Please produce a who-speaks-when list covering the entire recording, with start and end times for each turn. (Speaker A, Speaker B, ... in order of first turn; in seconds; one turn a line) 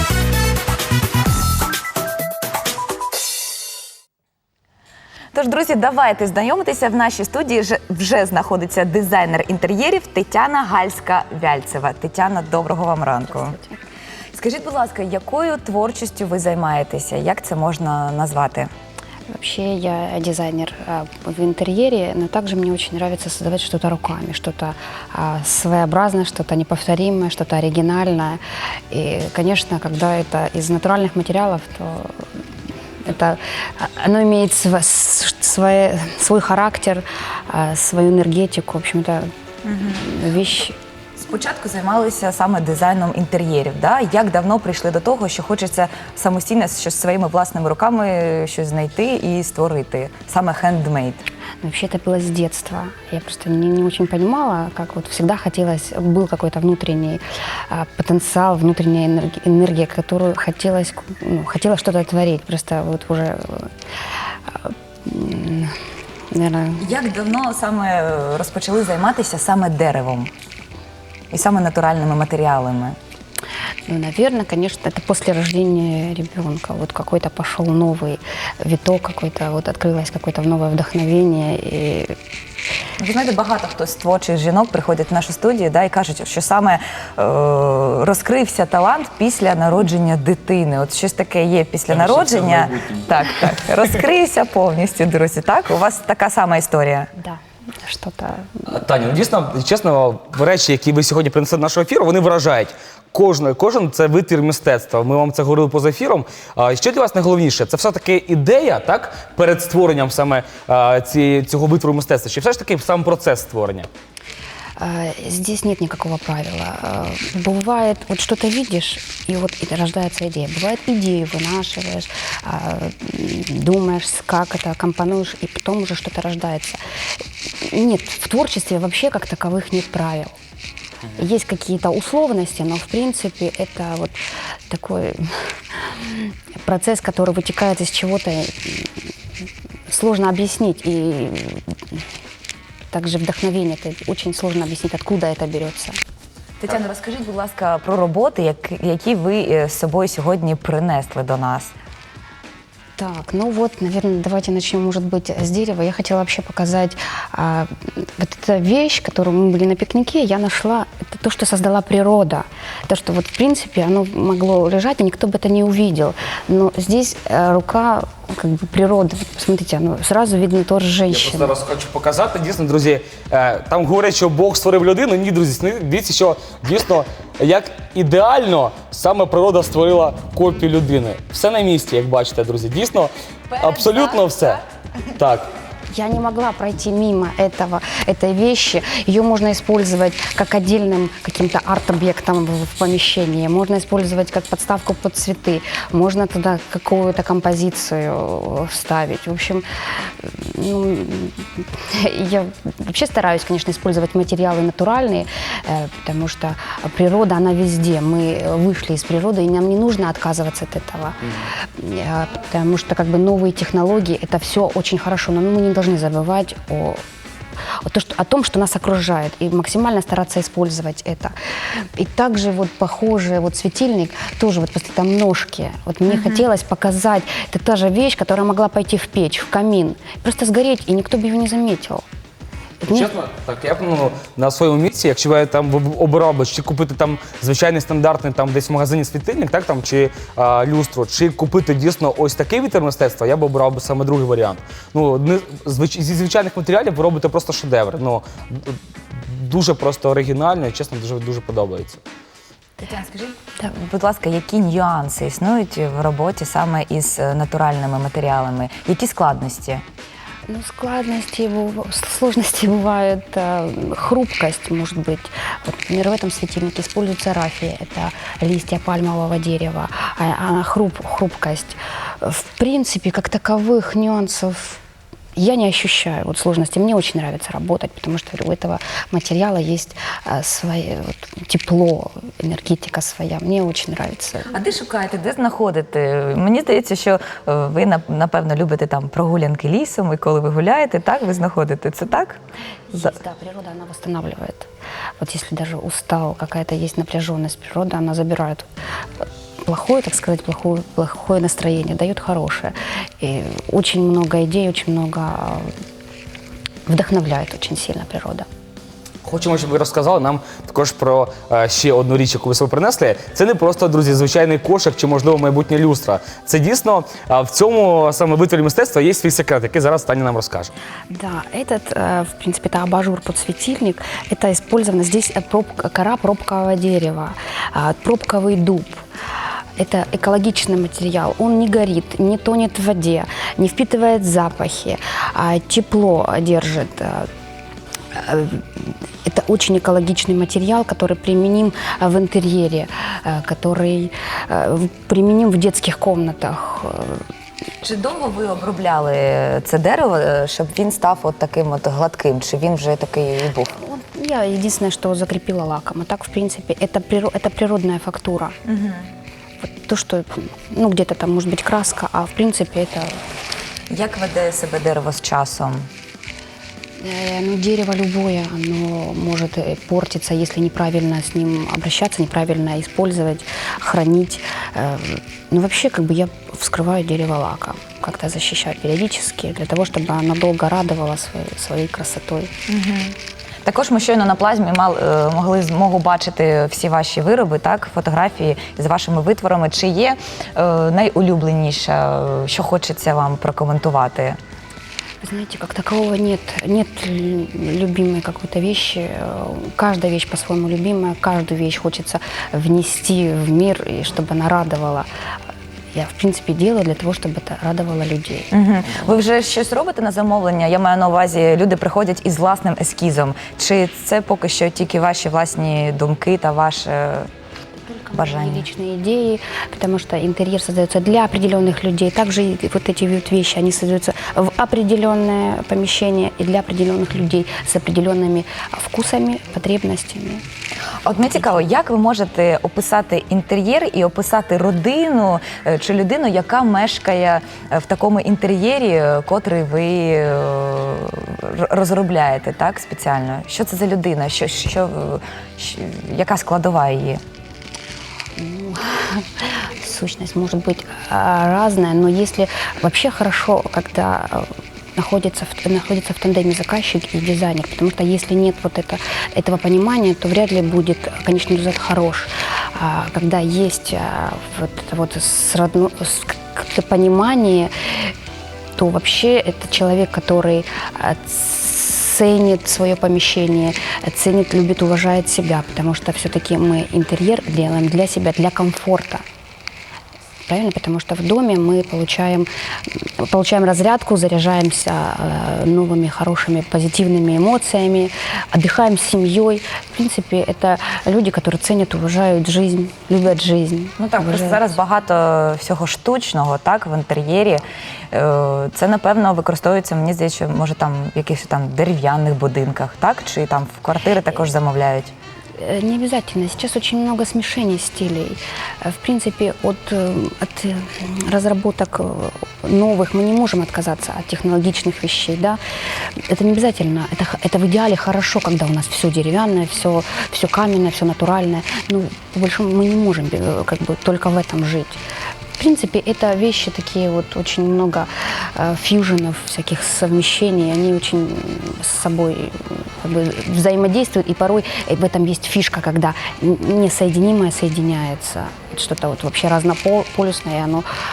Speaker A: 5.3-13.6
Speaker B: 13.3-13.8
Speaker A: 14.3-18.7
Speaker B: 19.3-32.1
Speaker B: 33.0-39.3
Speaker A: 39.6-40.0
Speaker B: 40.0-40.8
Speaker A: 41.2-51.2
Speaker B: 51.6-63.7
Speaker B: 64.5-65.7
Speaker B: 66.3-66.9
Speaker A: 66.8-70.3
Speaker A: 71.3-73.0
Speaker B: 73.9-82.1
Speaker A: 83.0-97.1
Speaker C: 91.9-93.4
Speaker B: 97.2-98.7
Speaker C: 98.7-113.9
Speaker B: 114.8-126.8
Speaker B: 127.6-130.4
Speaker B: 131.2-139.1
Speaker B: 139.9-142.0
Speaker B: 142.9-146.0
Speaker A: 146.6-151.7
Speaker B: 153.0-171.6
Speaker C: 171.1-184.6
Speaker A: 183.5-184.6
Speaker C: 185.2-185.5
Speaker B: 185.9-217.0
Speaker B: 217.8-232.0
Speaker A: 226.1-226.4
Speaker B: 232.8-233.1
Speaker C: 232.9-252.0
Speaker A: 252.8-259.8
Speaker B: 260.5-274.8
Speaker B: 275.3-284.5
Speaker A: 284.5-292.4
Speaker B: 292.9-294.7
Speaker B: 295.2-298.7
Speaker B: 299.6-305.7
Speaker B: 306.9-308.4
Speaker C: 309.2-320.7
Speaker B: 321.1-329.0
Speaker B: 329.8-337.3
Speaker B: 338.1-347.2
Speaker A: 347.8-353.8
Speaker B: 353.8-358.6
Speaker A: 358.6-359.1
Speaker B: 359.6-363.2
Speaker A: 363.9-365.9
Speaker B: 367.0-382.5
Speaker A: 382.7-394.4
Speaker B: 395.2-405.1
Speaker B: 405.9-408.5
Speaker A: 408.5-417.3
Speaker B: 417.9-430.4
Speaker A: 418.1-418.7
Speaker A: 431.0-447.2
Speaker B: 448.4-468.1
Speaker B: 468.8-479.2
Speaker B: 480.5-494.7
Speaker A: 494.0-505.1
Speaker B: 505.6-515.6
Speaker B: 516.1-525.0
Speaker B: 525.6-540.8